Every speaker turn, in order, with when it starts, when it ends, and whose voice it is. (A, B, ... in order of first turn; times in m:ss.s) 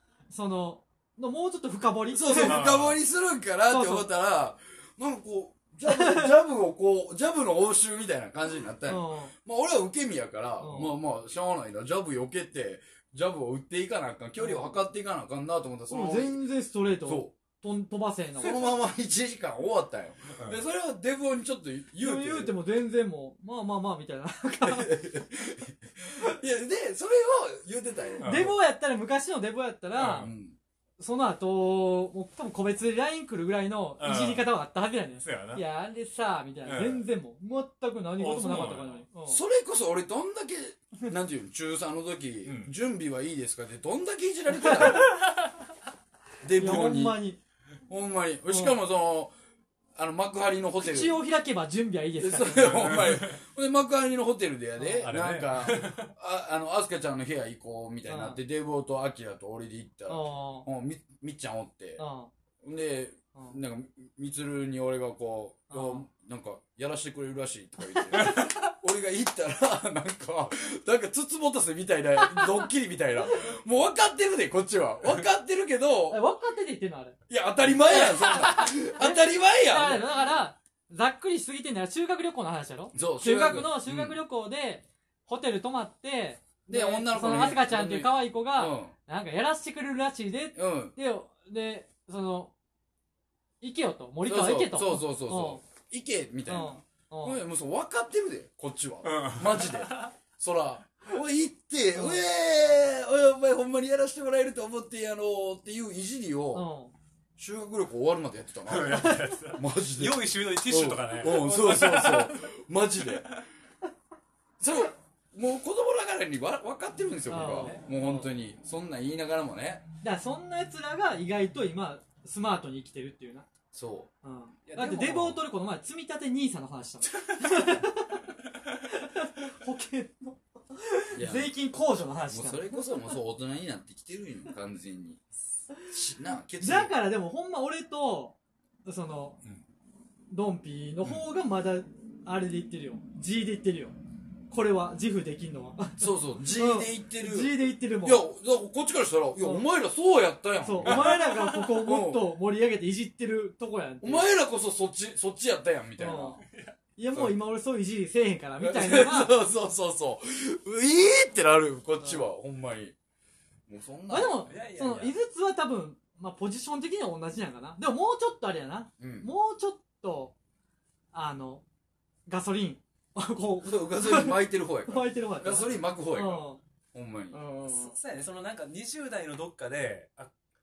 0:00.3-0:02.6 A
0:02.1-0:16.4 B
0:02.4-0:03.0 C
0:03.7-0:04.1 A
0:05.8-0:06.3 A
0:08.8-0:09.3 A
0:10.6-0:11.0 A
0:14.4-0:14.8 A
0:15.9-0:18.6 A
0:17.0-0:17.3 B
0:18.4-0:22.6 B
0:20.3-0:20.6 C
0:22.0-0:25.0 A
0:24.6-0:28.5 B
0:28.2-0:28.6 C
0:28.2-0:30.3 A
0:30.0-0:30.3 C
0:30.2-0:30.6 B
0:31.0-0:39.4 A
0:34.0-0:34.5 C
0:35.2-0:35.6 C
0:36.6-0:37.1 C
0:38.2-0:39.0 C
0:39.3-0:45.2 B
0:42.4-0:42.8 C
0:44.6-0:45.3 A
0:46.4-0:47.2 B
0:46.5-0:47.4 A
0:47.9-0:49.4 B
0:48.5-0:48.8 A
0:50.0-0:51.2 B
0:50.8-0:52.8 A
0:52.2-1:02.0 B
0:52.6-0:53.4 C
0:54.8-0:56.1 C
0:58.1-0:58.4 A
1:00.1-1:00.7 A
1:02.0-1:02.3 A
1:02.6-1:16.2 B
1:05.7-1:06.0 A
1:07.8-1:08.6 A
1:12.2-1:12.7 A
1:16.1-1:17.2 A
1:17.3-1:20.4 B
1:17.9-1:32.5 A
1:22.9-1:24.2 B
1:26.7-1:28.9 B
1:30.6-1:31.0 B
1:33.6-1:35.6 A
1:34.2-1:46.7 B
1:36.5-1:37.4 A
1:39.0-1:40.1 C
1:42.0-1:42.2 A
1:46.5-1:46.9 A
1:47.4-1:53.3 B
1:48.7-1:52.5 C
1:54.6-1:59.8 B
1:57.3-1:58.3 A
2:00.0-2:03.5 A
2:03.7-2:04.1 B
2:04.2-2:13.1 A
2:04.7-2:05.4 C
2:07.1-2:07.8 C
2:11.1-2:11.5 B
2:12.3-2:15.2 B
2:15.9-2:16.9 B
2:16.6-2:19.4 A
2:20.3-2:24.0 A
2:24.5-2:28.2 A
2:26.0-2:32.3 B
2:29.4-2:29.6 A
2:30.6-2:34.3 A
2:34.0-2:36.4 B
2:36.0-2:36.4 A
2:36.5-2:36.8 C
2:37.0-2:39.3 A
2:38.6-2:43.0 B
2:43.7-2:44.4 B
2:44.1-2:50.4 A
2:44.4-2:45.2 C
2:49.0-2:49.3 B
2:51.1-2:51.6 A
2:52.3-2:56.6 A
2:53.6-2:57.4 B
2:57.3-2:57.9 A
2:57.6-3:00.3 C